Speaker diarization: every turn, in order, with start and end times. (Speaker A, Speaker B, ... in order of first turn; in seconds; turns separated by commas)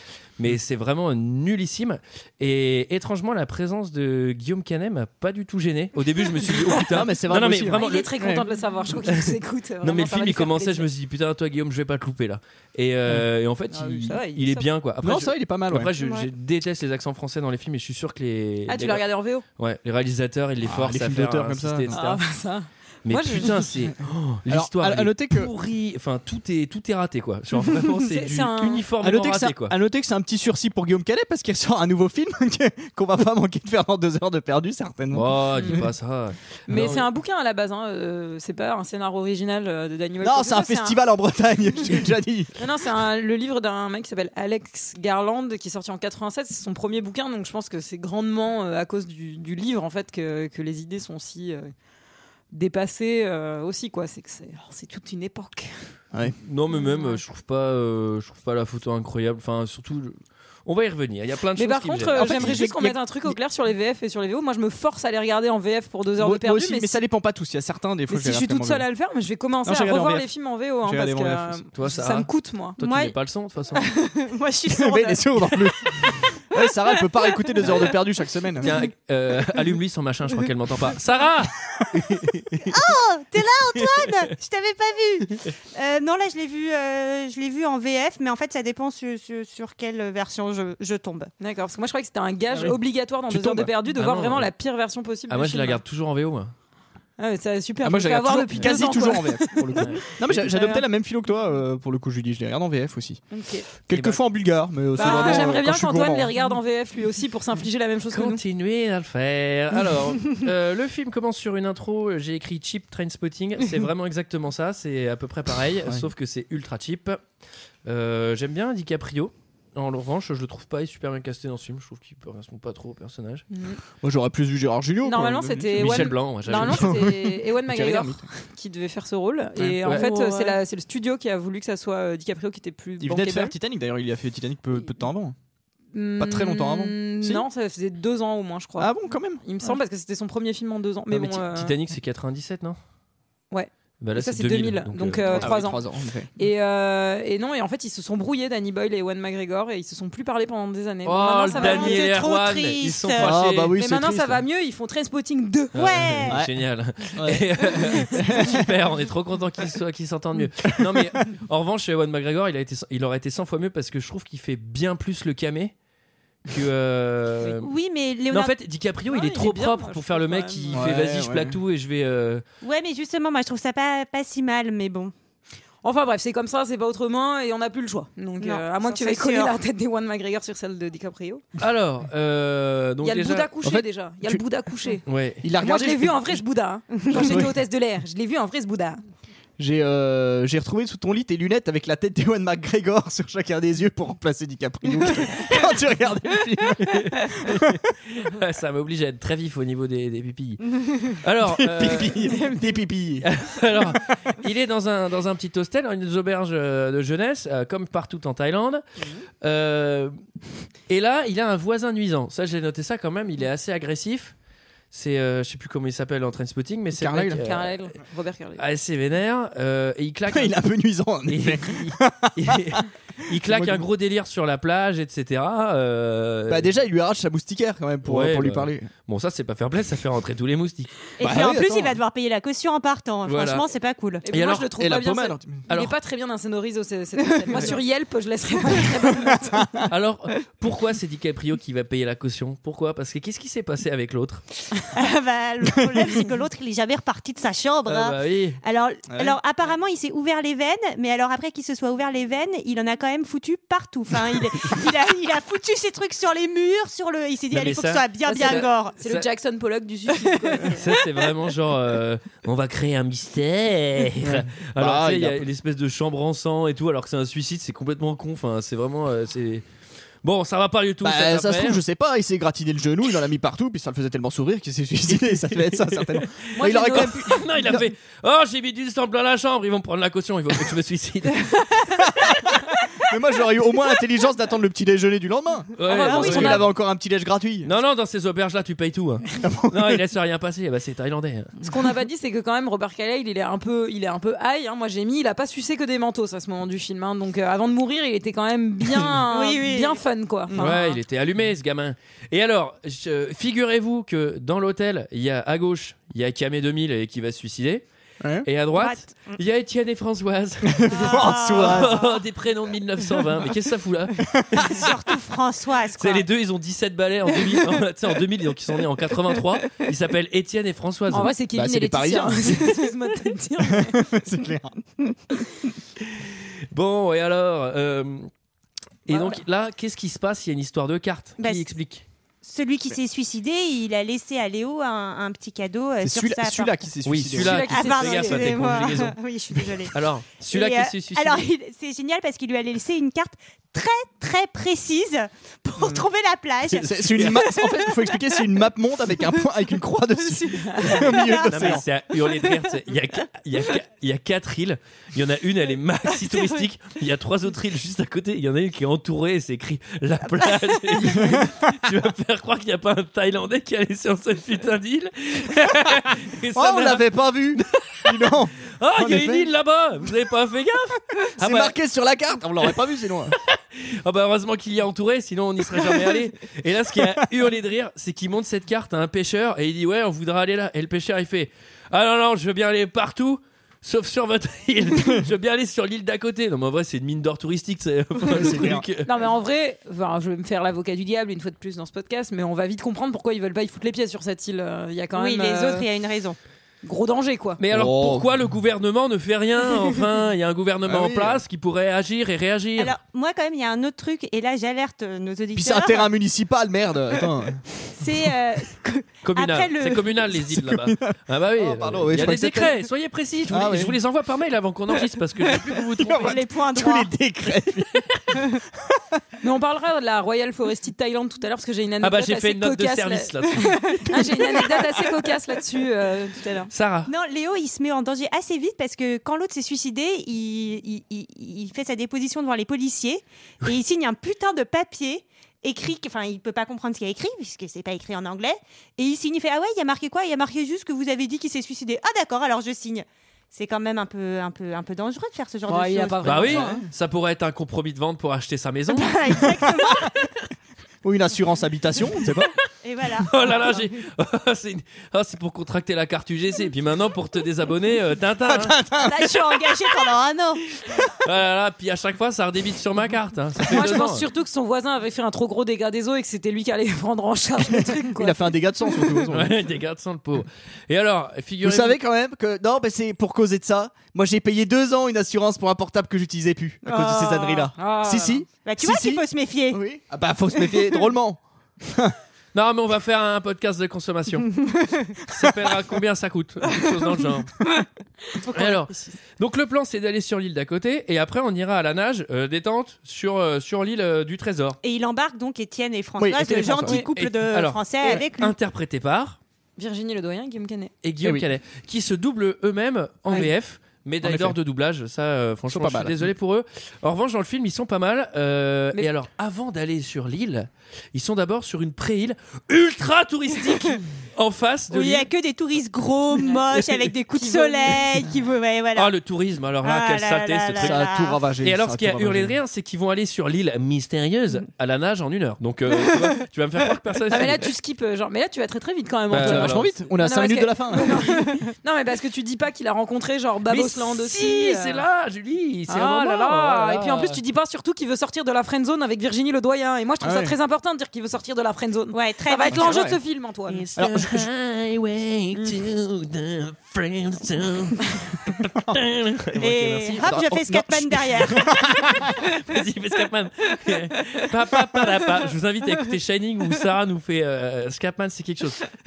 Speaker A: 0.4-8.1, Speaker B: 6.7-8.4, Speaker C: 7.7-10.9, Speaker A: 9.1-19.0, Speaker C: 13.7-14.7, Speaker B: 15.0-15.9, Speaker D: 16.0-16.3, Speaker C: 18.7-19.4, Speaker A: 19.6-22.2, Speaker B: 20.6-21.9, Speaker C: 21.9-23.6, Speaker A: 23.1-29.7, Speaker B: 24.5-25.5, Speaker C: 28.1-28.9, Speaker B: 29.0-35.9, Speaker A: 35.1-37.1, Speaker C: 36.7-41.0, Speaker B: 40.2-42.5, Speaker C: 42.6-51.7, Speaker C: 52.5-55.7, Speaker A: 56.4-62.6, Speaker C: 56.7-57.2, Speaker C: 61.6-67.0, Speaker B: 62.1-63.4, Speaker B: 66.2-68.8, Speaker C: 68.1-72.8, Speaker B: 69.6-70.3, Speaker B: 70.8-71.6, Speaker A: 71.7-73.8, Speaker D: 72.8-73.1, Speaker D: 73.8-76.3, Speaker B: 74.7-78.7, Speaker A: 77.7-78.0, Speaker A: 78.6-82.7, Speaker D: 82.7-91.3, Speaker C: 91.4-95.8, Speaker B: 92.5-93.7, Speaker A: 94.0-94.5, Speaker A: 95.3-96.5, Speaker C: 97.2-100.8, Speaker B: 97.8-103.2, Speaker A: 99.8-100.0, Speaker C: 103.3-103.7, Speaker B: 103.8-106.3, Speaker A: 103.9-104.2, Speaker C: 105.0-108.4, Speaker A: 105.0-105.3, Speaker A: 108.1-117.2, Speaker A: 117.8-123.5, Speaker C: 123.5-123.8, Speaker B: 124.0-128.3, Speaker C: 125.0-133.6, Speaker A: 125.8-127.0, Speaker B: 129.6-130.0, Speaker A: 129.8-130.5, Speaker B: 133.0-135.4, Speaker C: 135.9-141.7, Speaker B: 136.2-137.5, Speaker B: 138.8-139.4, Speaker A: 141.1-142.8, Speaker C: 143.5-145.8, Speaker A: 144.0-145.6, Speaker B: 145.3-146.3, Speaker C: 146.4-152.1, Speaker A: 151.1-153.8, Speaker D: 151.5-153.4, Speaker B: 153.2-154.4, Speaker C: 153.8-155.8, Speaker A: 155.7-165.7, Speaker D: 155.8-156.4, Speaker B: 156.3-156.5, Speaker B: 157.1-158.7, Speaker B: 160.7-161.1, Speaker A: 166.5-167.7, Speaker D: 167.6-168.5, Speaker A: 168.3-172.4, Speaker C: 169.1-170.8, Speaker B: 170.7-171.6, Speaker D: 172.6-175.1, Speaker C: 175.8-181.4, Speaker D: 178.4-179.6, Speaker A: 181.6-183.5, Speaker C: 183.0-185.0, Speaker B: 183.6-184.4, Speaker A: 185.1-185.4, Speaker B: 185.4-186.4, Speaker C: 185.6-189.0, Speaker D: 187.1-187.4, Speaker B: 187.1-187.5, Speaker B: 189.6-197.8, Speaker A: 196.8-202.4, Speaker B: 201.5-203.3, Speaker A: 203.2-208.8, Speaker B: 209.0-209.2, Speaker A: 209.4-210.1, Speaker A: 210.9-214.3, Speaker A: 214.9-217.8, Speaker B: 217.0-217.5, Speaker C: 217.4-218.6, Speaker A: 218.6-220.6, Speaker B: 220.3-223.8, Speaker A: 221.3-226.8, Speaker B: 226.5-228.9, Speaker A: 228.1-230.9, Speaker D: 231.2-234.2, Speaker B: 231.2-232.0, Speaker A: 233.3-233.7, Speaker C: 234.2-239.6, Speaker A: 234.3-234.7, Speaker B: 234.8-235.6, Speaker A: 235.7-235.9, Speaker B: 239.3-239.7, Speaker A: 239.9-244.4, Speaker D: 244.9-259.0, Speaker A: 247.9-248.6, Speaker B: 249.1-249.4, Speaker A: 257.5-259.3, Speaker C: 258.3-260.8, Speaker D: 260.3-260.8, Speaker A: 260.7-269.6, Speaker B: 264.2-265.4, Speaker A: 270.2-271.8, Speaker B: 271.0-277.9, Speaker A: 275.7-282.3, Speaker C: 276.6-277.3, Speaker B: 283.1-287.7, Speaker A: 285.8-286.6, Speaker C: 285.8-286.7, Speaker A: 287.6-291.5, Speaker B: 289.4-290.0, Speaker C: 291.6-300.6, Speaker D: 299.3-300.0, Speaker B: 300.5-300.9, Speaker A: 300.6-307.9, Speaker B: 308.2-308.5, Speaker A: 308.4-314.9, Speaker D: 308.8-309.4, Speaker B: 310.7-312.0, Speaker D: 310.9-312.2, Speaker B: 314.2-314.8, Speaker D: 314.6-316.3, Speaker A: 316.0-321.3, Speaker C: 321.1-324.1, Speaker B: 321.5-322.9, Speaker B: 323.6-324.8, Speaker A: 326.1-328.3, Speaker A: 329.1-332.0, Speaker C: 329.1-329.4, Speaker D: 331.4-331.7, Speaker D: 332.4-336.8, Speaker B: 336.0-337.7, Speaker A: 337.1-339.2, Speaker C: 337.4-338.8, Speaker D: 337.7-339.9, Speaker A: 339.9-341.5, Speaker D: 340.5-348.1, Speaker B: 345.8-346.1, Speaker B: 346.7-351.9, Speaker A: 346.7-347.5, Speaker C: 350.5-350.9, Speaker A: 350.9-368.0, Speaker D: 350.9-352.5, Speaker D: 356.2-356.6, Speaker D: 360.5-361.2, Speaker B: 361.1-361.7, Speaker B: 366.5-369.5, Speaker A: 368.8-371.8, Speaker B: 371.4-373.4, Speaker A: 373.5-389.1, Speaker B: 388.2-388.9, Speaker C: 389.1-395.9, Speaker D: 395.1-396.4, Speaker C: 396.8-397.6, Speaker A: 397.6-402.9, Speaker B: 397.7-398.3, Speaker B: 400.9-401.4, Speaker D: 402.8-406.1, Speaker B: 405.5-407.6, Speaker D: 408.0-410.2, Speaker A: 409.2-416.4, Speaker B: 410.4-412.8, Speaker B: 413.5-414.0, Speaker B: 415.5-418.4, Speaker D: 416.2-417.1, Speaker C: 419.4-423.5, Speaker A: 422.0-424.2, Speaker C: 424.1-426.7, Speaker A: 426.7-427.1, Speaker D: 427.1-446.8, Speaker C: 445.7-446.8, Speaker A: 446.2-449.1, Speaker D: 448.9-450.3, Speaker B: 451.0-452.5, Speaker D: 452.8-453.8, Speaker A: 453.3-458.8, Speaker B: 458.5-459.5, Speaker D: 459.0-460.7, Speaker A: 461.1-464.2, Speaker C: 463.7-468.9, Speaker B: 467.6-469.6, Speaker A: 469.3-472.0, Speaker B: 471.6-482.2, Speaker D: 476.9-477.7, Speaker C: 477.8-478.4, Speaker D: 478.6-479.8, Speaker A: 482.5-484.5, Speaker A: 485.3-487.5, Speaker A: 488.5-494.8, Speaker D: 494.8-498.6, Speaker B: 496.2-497.0, Speaker A: 496.8-499.4, Speaker C: 499.8-500.9, Speaker A: 501.0-515.3, Speaker B: 501.2-501.5, Speaker B: 504.2-504.6, Speaker B: 505.7-506.3, Speaker D: 514.9-519.1, Speaker C: 516.4-516.6, Speaker C: 517.3-518.2, Speaker A: 519.0-527.6, Speaker D: 519.8-521.4, Speaker B: 520.8-522.6, Speaker C: 527.3-535.0, Speaker A: 529.3-530.0, Speaker B: 529.3-531.5, Speaker A: 533.7-537.4, Speaker C: 535.9-543.8, Speaker B: 540.2-540.6, Speaker D: 542.1-543.1, Speaker B: 542.7-543.2, Speaker A: 543.7-550.3, Speaker B: 544.0-544.4, Speaker D: 549.6-551.8, Speaker B: 550.2-552.3, Speaker A: 551.8-558.8